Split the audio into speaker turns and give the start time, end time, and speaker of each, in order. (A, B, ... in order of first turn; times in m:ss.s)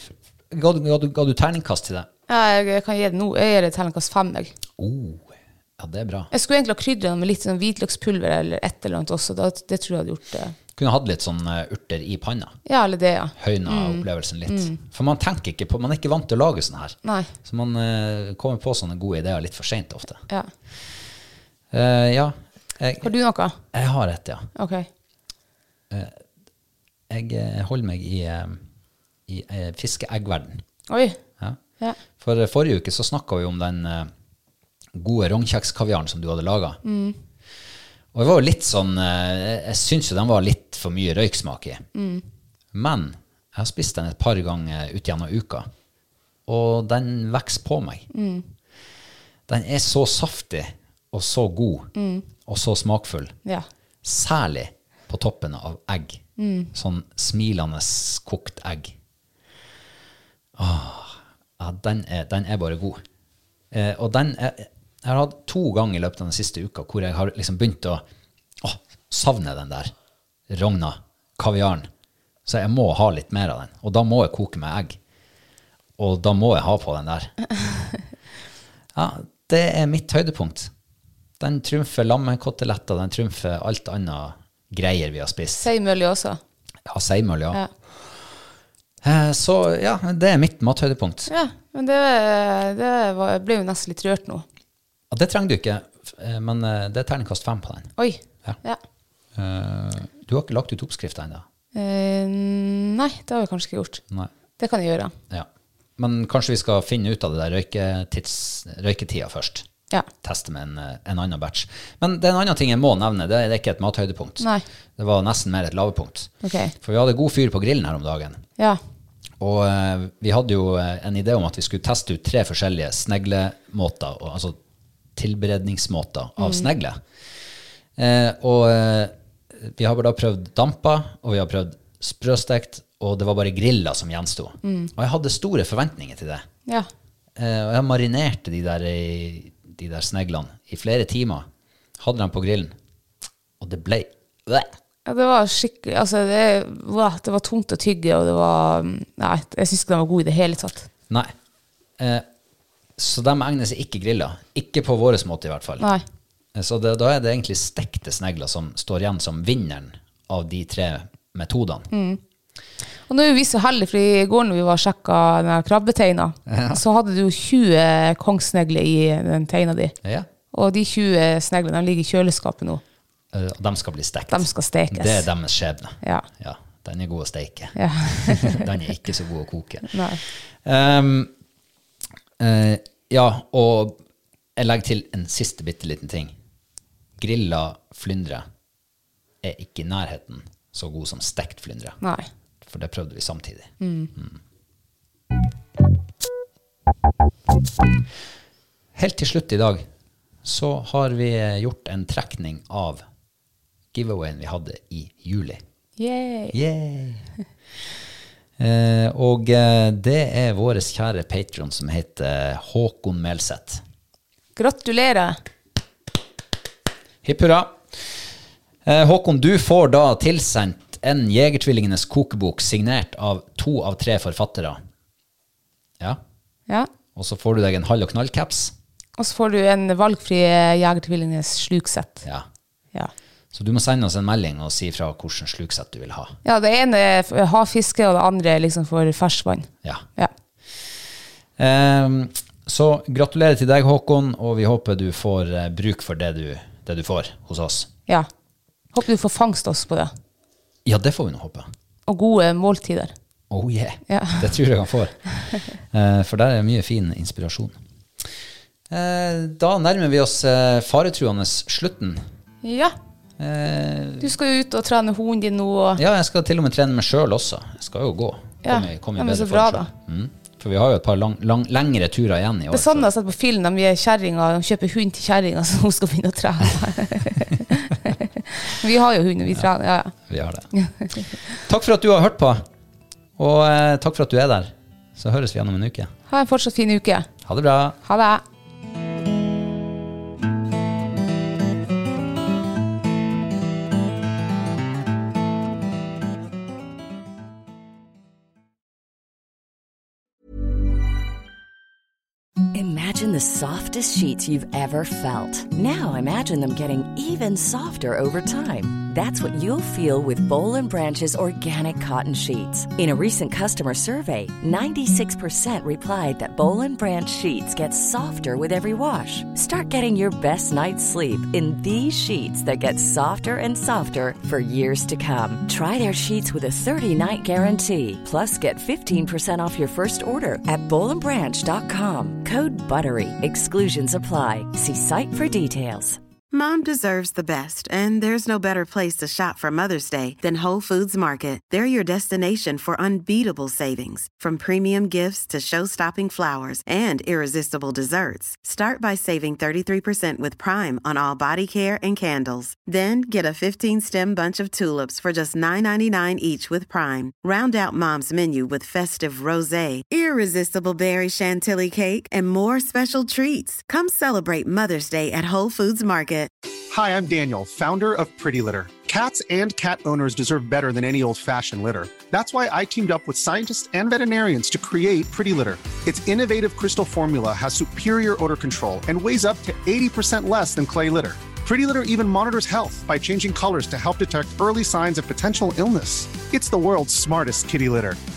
0:00.5-0:02.1 A
0:02.3-0:04.5 B
0:04.8-0:06.3 A
0:06.3-0:10.5 B
0:10.8-0:12.5 A
0:12.6-0:14.8 B
0:13.4-0:20.2 A
0:17.0-0:17.3 B
0:21.7-0:23.1 A
0:23.0-0:23.6 B
0:23.7-0:24.5 A
0:24.6-0:24.9 B
0:25.9-0:26.2 A
0:27.1-0:28.6 A
0:29.3-0:30.6 A
0:30.9-0:31.2 B
0:32.2-0:34.1 A
0:34.9-0:36.8 A
0:36.8-0:37.2 B
0:38.1-0:41.8 A
0:41.9-0:42.2 B
0:42.7-0:45.7 A
0:46.5-0:48.1 A
0:48.1-0:48.4 B
0:49.5-0:53.4 A
0:51.9-0:52.3 B
0:54.0-0:58.9 A
0:56.4-0:56.7 B
1:00.6-1:03.0 A
1:03.7-1:08.0 A
1:08.6-1:09.9 A
1:10.5-1:11.9 A
1:12.4-1:15.0 A
1:16.0-1:17.3 A
1:18.9-1:20.7 A
1:21.4-1:25.7 A
1:25.6-1:26.4 B
1:26.8-1:28.2 A
1:29.0-1:31.3 A
1:31.3-1:34.4 B
1:35.1-1:37.9 A
1:38.0-1:38.8 B
1:39.4-1:41.4 A
1:41.7-1:44.0 B
1:44.6-1:45.1 B
1:45.3-1:49.6 A
1:50.2-1:58.4 A
1:56.4-1:56.7 B
1:59.4-2:04.6 A
2:05.2-2:07.0 A
2:06.4-2:06.7 B
2:08.0-2:16.5 A
2:14.6-2:14.9 B
2:17.4-2:21.5 A
2:22.0-2:22.8 A
2:23.6-2:24.7 A
2:25.0-2:30.9 B
2:32.0-2:32.2 A
2:33.0-2:35.9 A
2:36.5-2:41.9 A
2:41.9-2:42.2 B
2:43.1-2:49.9 B
2:46.5-2:46.8 A
2:50.5-2:52.8 B
2:53.3-3:01.3 A
2:54.3-2:55.3 B
2:56.0-2:56.2 B
2:57.8-2:58.6 B
2:59.9-3:00.2 B
3:02.4-3:04.0 A
3:04.6-3:06.3 A
3:07.2-3:08.4 A
3:09.4-3:12.0 A
3:12.0-3:12.2 B
3:12.6-3:14.4 A
3:13.8-3:14.1 B
3:18.9-3:19.9 A
3:20.4-3:23.0 A
3:23.9-3:25.6 A
3:26.0-3:26.6 B
3:26.5-3:27.2 A
3:28.6-3:33.8 A
3:34.6-3:35.4 B
3:37.2-3:38.2 A
3:38.8-3:44.8 A
3:47.1-3:48.7 A
3:49.2-3:52.2 B
3:53.5-3:56.4 A
3:56.4-4:00.3 B
4:01.6-4:07.9 A
4:08.9-4:10.1 B
4:10.8-4:11.7 A
4:12.1-4:13.1 B
4:13.5-4:17.8 A
4:14.1-4:14.4 B
4:18.9-4:22.2 A
4:22.6-4:22.9 B
4:23.4-4:24.3 A
4:24.2-4:26.0 B
4:26.0-4:33.1 A
4:28.6-4:29.9 B
4:32.7-4:40.1 B
4:40.2-4:40.7 A
4:41.5-4:42.6 A
4:43.4-4:46.1 A
4:46.3-4:47.3 B
4:47.4-4:48.0 A
4:48.0-4:48.4 B
5:02.7-5:36.2 C
5:36.5-6:06.5 D
6:06.9-6:28.2 E